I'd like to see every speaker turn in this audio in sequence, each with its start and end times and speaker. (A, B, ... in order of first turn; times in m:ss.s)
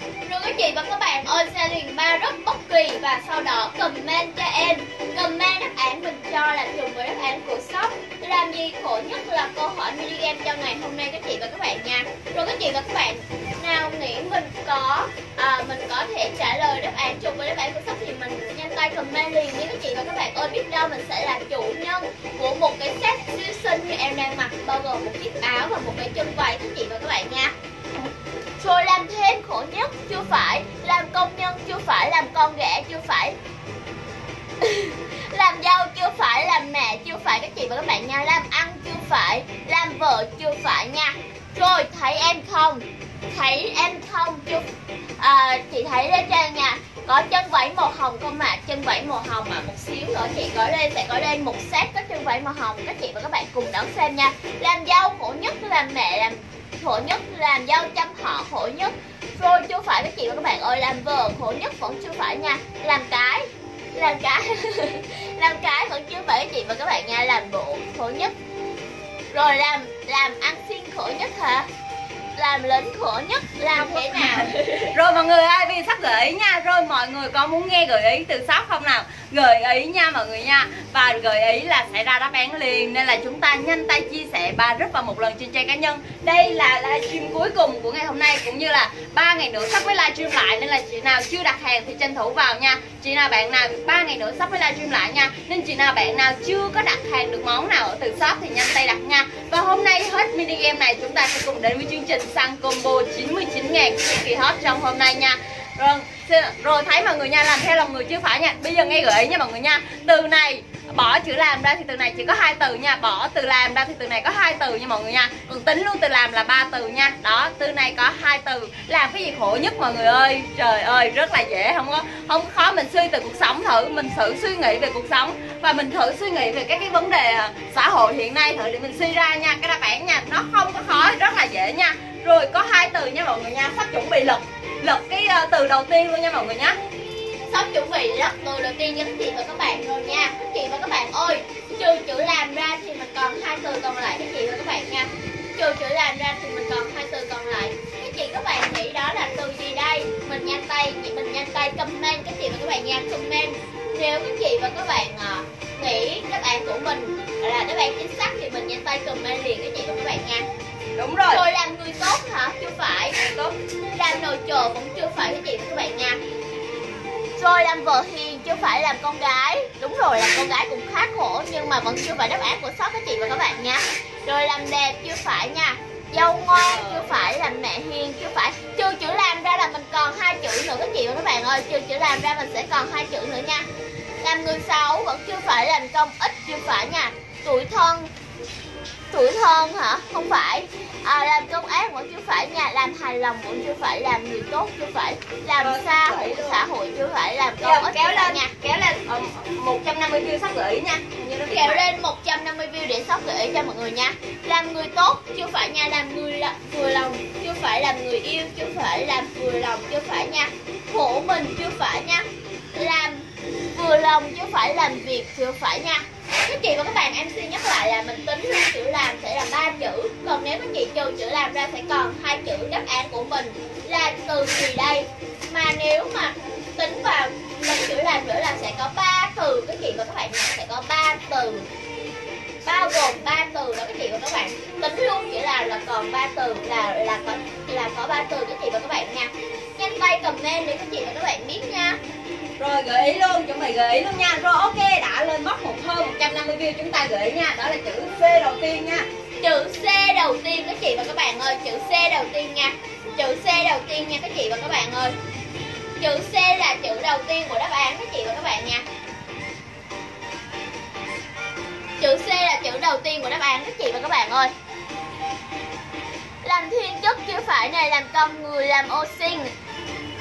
0:00.2-0:27.5 A
0:28.6-0:33.4 A
0:34.6-0:44.7 A
0:45.2-1:08.3 A
1:09.3-1:11.7 A
1:12.4-1:14.9 A
1:13.7-2:16.8 B
2:17.5-2:40.4 A
2:41.0-2:41.4 B
2:41.3-2:43.2 A
2:43.2-2:43.6 B
2:43.9-2:46.2 A
2:47.4-3:03.6 A
2:56.6-2:57.3 B
3:04.2-3:08.1 A
3:09.1-3:18.5 A
3:15.6-3:16.6 B
3:17.6-3:21.9 B
3:21.5-3:51.6 A
3:52.6-4:02.0 A
4:02.6-4:09.1 B
4:09.4-4:15.1 A
4:16.0-4:18.8 A
4:22.0-4:24.5 A
4:26.4-4:29.5 A